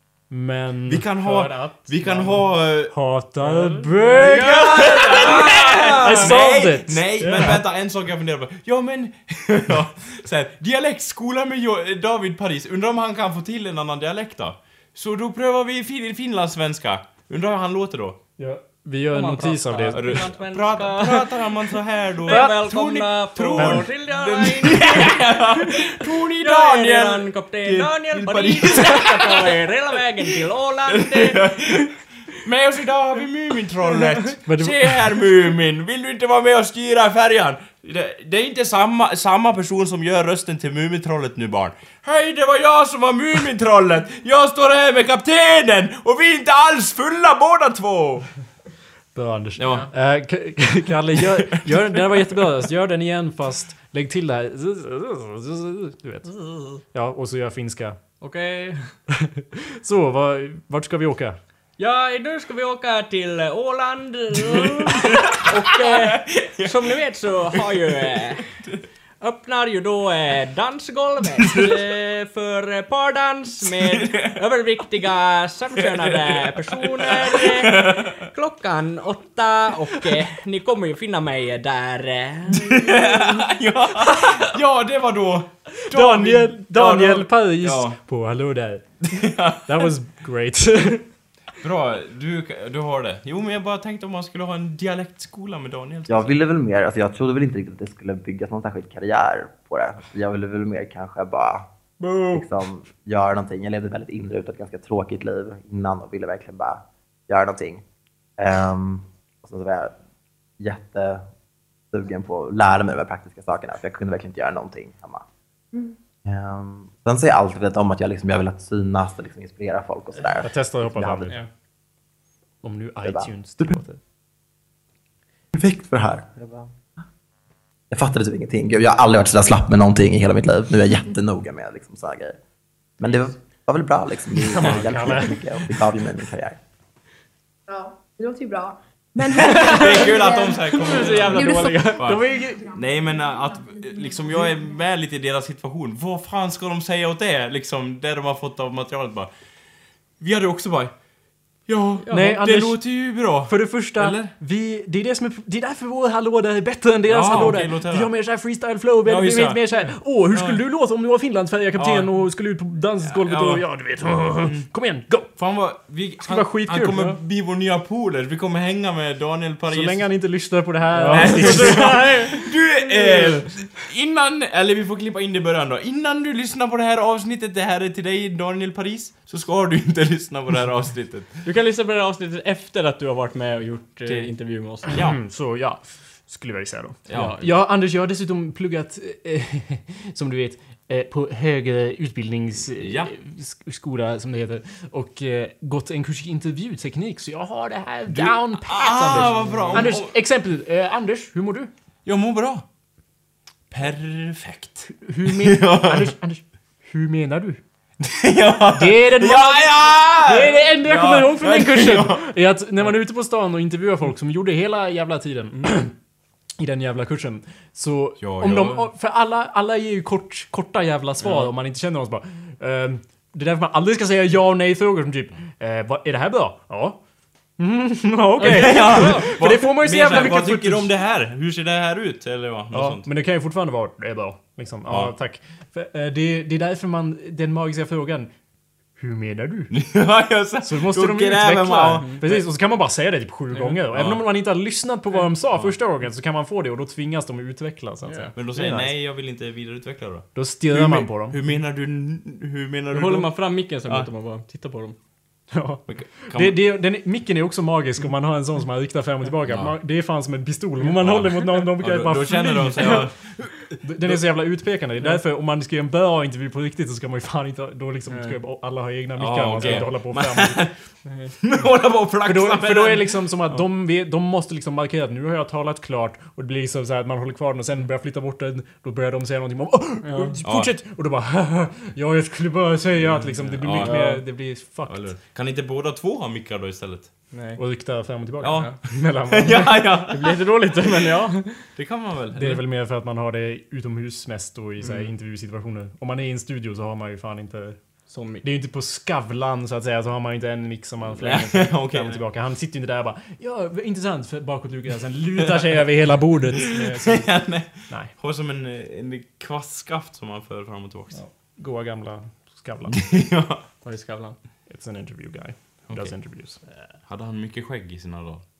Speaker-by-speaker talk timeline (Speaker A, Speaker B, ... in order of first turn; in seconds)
Speaker A: 0.3-5.0, 6.0-7.6, 18.4-20.3, 22.3-22.6, 23.6-23.9, 34.5-35.0, 49.1-58.0, 59.2-61.4, 85.9-91.1, 120.2-121.4, 122.6-124.0, 134.5-135.4, 142.0-142.7, 152.1-165.4, 166.2-167.0, 169.7-172.1, 184.9-201.7, 205.1-207.6, 208.7-215.9, 216.6-227.0, 227.6-230.9, 232.7-238.3, 239.0-239.7, 240.6-248.9, 250.3-251.4, 255.5-263.1, 263.8-270.7, 272.2-285.1, 287.6-289.7, 292.4-308.1, 311.1-313.0, 314.7-316.6
Speaker B: 0.9-2.9, 4.2-18.2, 19.9-29.5, 30.9-48.3, 49.6-49.9, 51.4-51.6, 64.8-66.8, 68.3-68.8, 71.4-71.7, 73.6-74.4, 75.8-78.3, 82.6-88.0, 89.1-89.6, 91.6-96.3, 139.3-149.3, 150.2-151.0, 151.7-154.3, 157.1-158.1, 159.1-159.6, 160.3-160.6, 161.8-162.2, 163.1-163.7, 165.3-170.6, 171.1-181.4, 184.9-185.2, 187.1-187.4, 192.8-193.1, 198.1-200.1, 202.1-202.7, 203.7-206.1, 208.0-212.3, 218.2-218.9, 228.4-233.1, 234.9-235.1, 239.7-242.4, 243.9-244.3, 248.3-254.1, 255.9-256.6, 259.5-259.8, 260.8-264.2, 269.2-270.7, 271.4-273.2, 280.4-280.7, 283.0-287.1, 288.4-290.4, 291.8-292.6, 301.2-302.2, 305.4-305.8, 306.6-311.2, 312.9-313.6, 315.9-316.2, 317.1-318.4
Speaker C: 1.5-2.4, 3.4-6.4, 7.2-7.6, 19.1-31.8, 33.9-34.4, 56.3-56.8, 58.2-59.0, 61.8-68.5, 69.2-83.5, 84.0-84.5, 102.0-102.5, 139.4-140.1, 140.8-142.1, 152.0-152.4, 157.3-157.6, 170.9-173.8, 181.4-184.9, 187.1-187.6, 199.3-199.8, 221.2-221.5, 228.4-229.3, 243.5-243.8, 248.1-248.3, 252.9-255.0, 268.1-268.4, 269.6-269.9, 271.1-271.4, 280.0-280.4, 283.8-284.2, 287.3-287.6, 288.5-288.8, 289.6-291.7, 298.1-298.4, 313.8-314.4
Speaker D: 96.1-101.7, 102.3-107.8, 108.4-110.0, 110.6-111.2, 111.9-115.2, 116.2-121.4, 123.0-123.3, 125.5-126.7, 127.9-132.4, 133.0-136.6
Speaker E: 137.7-142.8, 143.7-144.1